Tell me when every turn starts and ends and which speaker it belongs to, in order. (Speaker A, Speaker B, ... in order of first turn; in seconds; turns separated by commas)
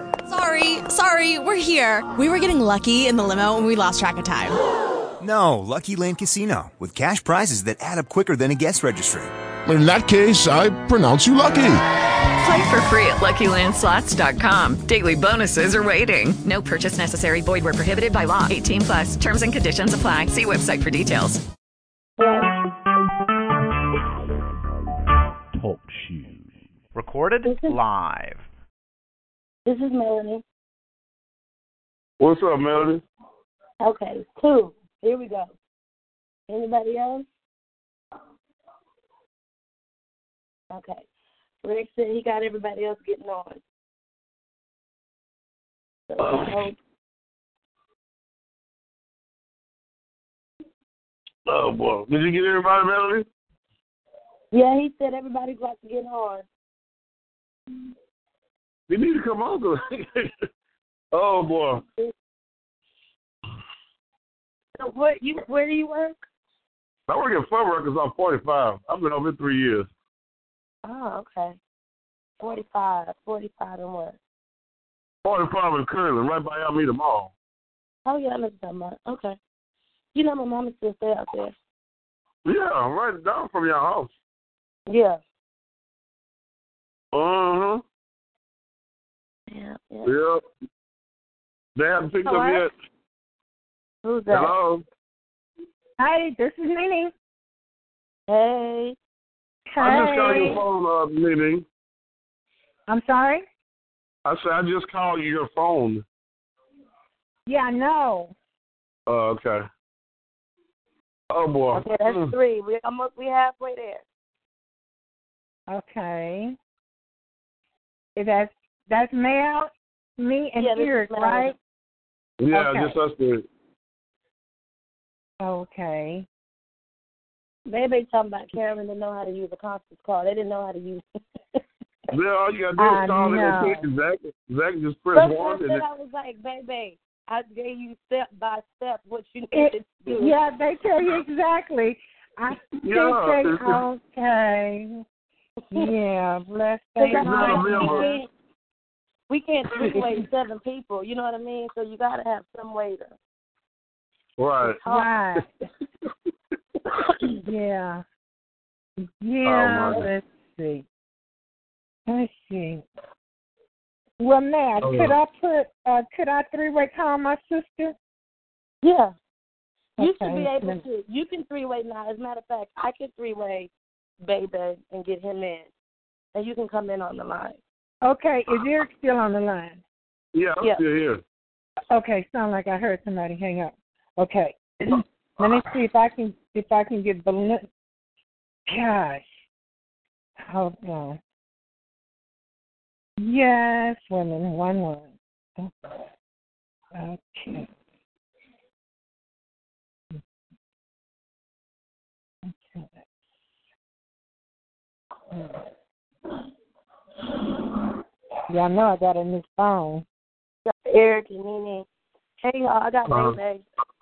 Speaker A: 0.3-4.6, Speaker B: 5.2-9.3, Speaker C: 9.7-11.8, Speaker D: 12.4-21.4, Speaker E: 22.2-22.5, Speaker F: 25.5-28.5, Speaker E: 27.4-27.8, Speaker E: 29.6-30.4, Speaker G: 32.2-33.0, Speaker E: 33.8-35.5, Speaker E: 36.5-37.3, Speaker E: 40.7-41.1, Speaker E: 41.6-43.6, Speaker E: 46.1-46.8, Speaker G: 46.2-46.6, Speaker G: 51.5-53.3, Speaker E: 54.5-56.5, Speaker G: 58.9-60.4, Speaker G: 61.1-61.8, Speaker E: 64.8-66.2, Speaker G: 67.1-69.9, Speaker E: 70.8-71.6, Speaker E: 72.4-74.2, Speaker G: 75.2-77.3, Speaker E: 78.0-79.4, Speaker E: 80.2-81.5, Speaker G: 82.5-84.1, Speaker E: 84.9-85.2, Speaker G: 87.1-87.8, Speaker E: 89.5-90.1, Speaker G: 90.0-90.4, Speaker G: 91.8-92.7, Speaker H: 92.2-92.7, Speaker E: 94.0-94.5, Speaker G: 94.3-94.8, Speaker H: 96.0-97.1, Speaker E: 98.3-99.0, Speaker H: 99.7-100.6, Speaker G: 99.8-101.7, Speaker H: 102.9-103.5, Speaker G: 104.2-106.0, Speaker H: 107.5-108.3, Speaker G: 109.1-109.7, Speaker G: 111.3-112.3, Speaker E: 111.7-114.0, Speaker H: 115.7-116.6, Speaker H: 118.2-121.5, Speaker E: 120.6-121.5, Speaker G: 122.4-123.5, Speaker H: 122.5-123.0, Speaker H: 125.4-126.3, Speaker E: 127.7-131.1, Speaker G: 132.1-135.8, Speaker H: 132.8-133.8, Speaker E: 135.1-140.3, Speaker H: 139.5-145.0, Speaker G: 142.8-143.8, Speaker H: 145.7-148.2, Speaker E: 147.0-148.3, Speaker G: 147.1-148.1, Speaker E: 149.3-153.2, Speaker H: 149.8-150.2, Speaker G: 154.4-154.8, Speaker E: 154.7-155.1, Speaker H: 154.9-155.5, Speaker H: 157.5-158.0, Speaker H: 159.2-160.8, Speaker G: 159.4-160.1, Speaker H: 162.1-162.8, Speaker H: 164.2-167.9, Speaker G: 164.8-165.2, Speaker E: 168.8-169.2, Speaker H: 170.0-170.8, Speaker E: 170.0-173.7, Speaker E: 174.2-175.7, Speaker E: 176.3-177.6, Speaker H: 178.0-179.8, Speaker G: 180.3-181.2, Speaker H: 181.9-184.8, Speaker H: 185.4-187.7, Speaker H: 188.7-189.3, Speaker H: 190.5-191.2, Speaker H: 193.2-195.7, Speaker H: 196.9-197.7, Speaker H: 202.5-203.0, Speaker H: 205.3-205.6, Speaker H: 208.5-210.1, Speaker E: 210.9-211.9, Speaker E: 212.4-213.6, Speaker G: 213.1-213.4